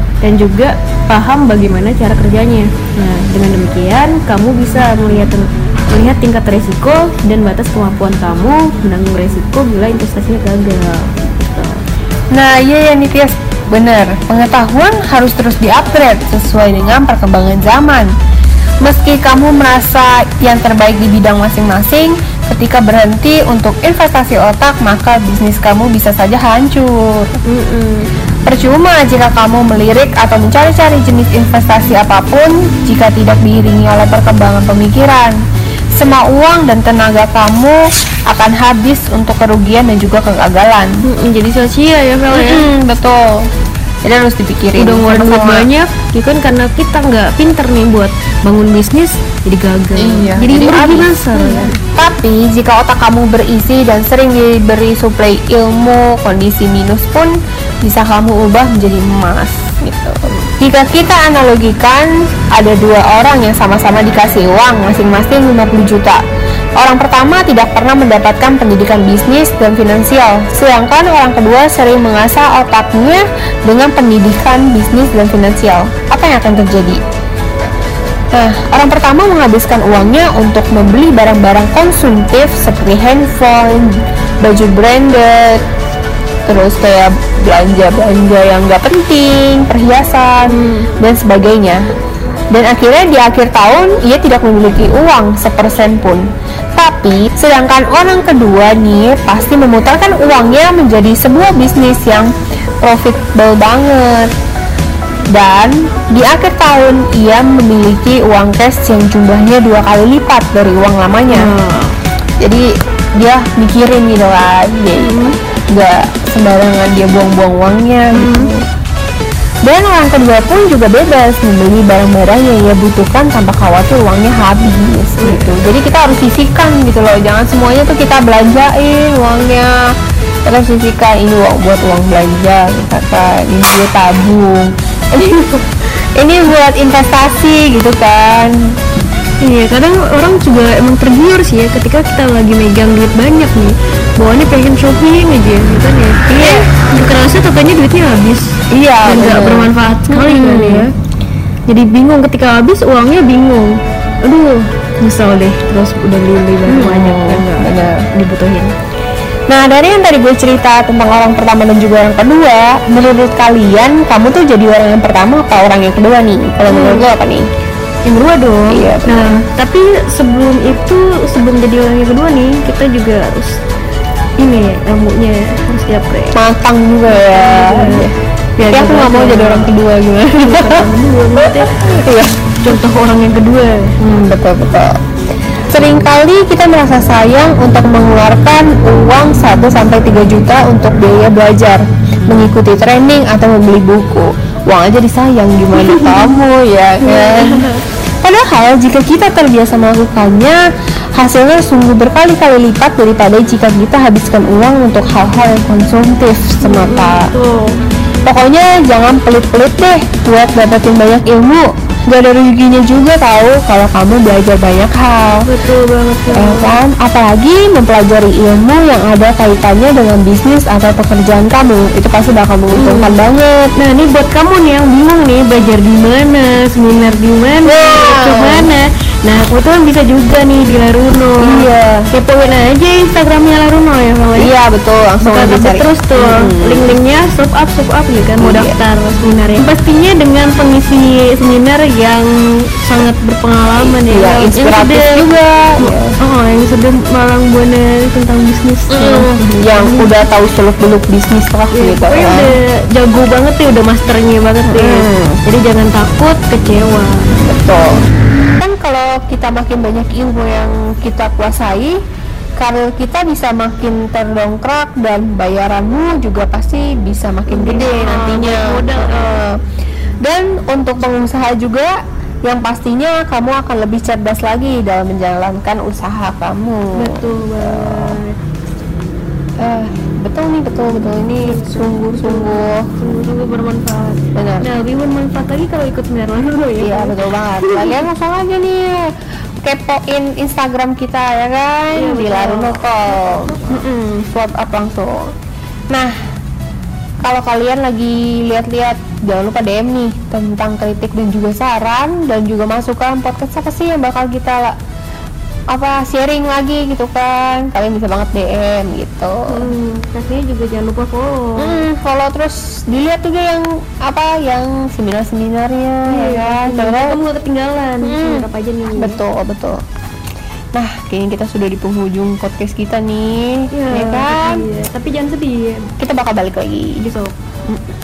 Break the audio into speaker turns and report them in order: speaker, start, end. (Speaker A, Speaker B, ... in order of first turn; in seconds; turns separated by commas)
Speaker A: 0.2-11.8, Speaker B: 12.3-18.1, Speaker B: 18.8-27.4, Speaker A: 27.4-28.1, Speaker B: 28.4-35.4, Speaker B: 36.0-40.9, Speaker A: 41.0-42.7, Speaker B: 42.3-43.4, Speaker B: 44.0-45.7, Speaker A: 44.8-51.8, Speaker B: 50.0-57.3, Speaker B: 57.8-66.2, Speaker B: 66.8-77.0, Speaker B: 78.3-85.6, Speaker B: 86.5-91.8, Speaker A: 90.5-90.9, Speaker B: 92.5-96.2, Speaker B: 96.8-102.3, Speaker B: 102.8-104.3, Speaker B: 105.3-111.5, Speaker A: 111.3-111.9, Speaker B: 113.2-115.1, Speaker A: 115.0-115.4, Speaker B: 115.7-118.6, Speaker A: 118.1-118.5, Speaker B: 119.6-129.9, Speaker A: 125.2-125.6, Speaker B: 130.4-135.6, Speaker B: 136.2-138.6, Speaker A: 139.4-150.9, Speaker B: 146.3-146.7, Speaker B: 148.7-150.9, Speaker A: 151.7-158.7, Speaker B: 156.7-158.1, Speaker B: 159.5-167.4, Speaker A: 166.7-167.1, Speaker A: 168.1-173.6, Speaker B: 168.7-169.4, Speaker A: 174.4-176.3, Speaker B: 176.3-178.1, Speaker A: 177.1-181.9, Speaker B: 178.7-180.8, Speaker B: 181.4-182.3, Speaker A: 182.6-183.9, Speaker B: 184.0-184.9, Speaker B: 185.7-197.7, Speaker A: 195.8-196.4, Speaker A: 197.0-197.8, Speaker B: 198.2-200.6, Speaker B: 201.1-207.3, Speaker A: 206.6-207.8, Speaker B: 208.2-215.4, Speaker A: 215.5-216.8, Speaker B: 216.3-223.7, Speaker A: 222.7-223.2, Speaker A: 223.8-234.5, Speaker B: 227.7-228.7, Speaker B: 231.4-232.1, Speaker B: 234.3-236.9, Speaker A: 235.2-245.2, Speaker B: 238.4-238.8, Speaker B: 243.8-246.1, Speaker A: 245.8-250.1, Speaker B: 248.9-252.6, Speaker A: 251.7-257.3, Speaker B: 254.7-255.4, Speaker B: 257.3-258.0, Speaker B: 258.6-262.0, Speaker B: 262.6-269.6, Speaker A: 267.5-269.4, Speaker B: 270.2-271.9, Speaker B: 272.4-278.2, Speaker A: 276.9-278.3, Speaker B: 279.6-282.9, Speaker A: 280.9-288.1, Speaker B: 284.3-284.7, Speaker B: 286.8-295.3, Speaker A: 291.9-293.9, Speaker B: 297.2-304.7, Speaker B: 305.7-309.5, Speaker A: 309.5-311.9, Speaker B: 311.6-317.2, Speaker A: 316.1-319.2, Speaker B: 318.0-319.8, Speaker B: 320.7-324.6, Speaker A: 323.7-325.9, Speaker B: 326.0-327.0, Speaker A: 327.0-327.3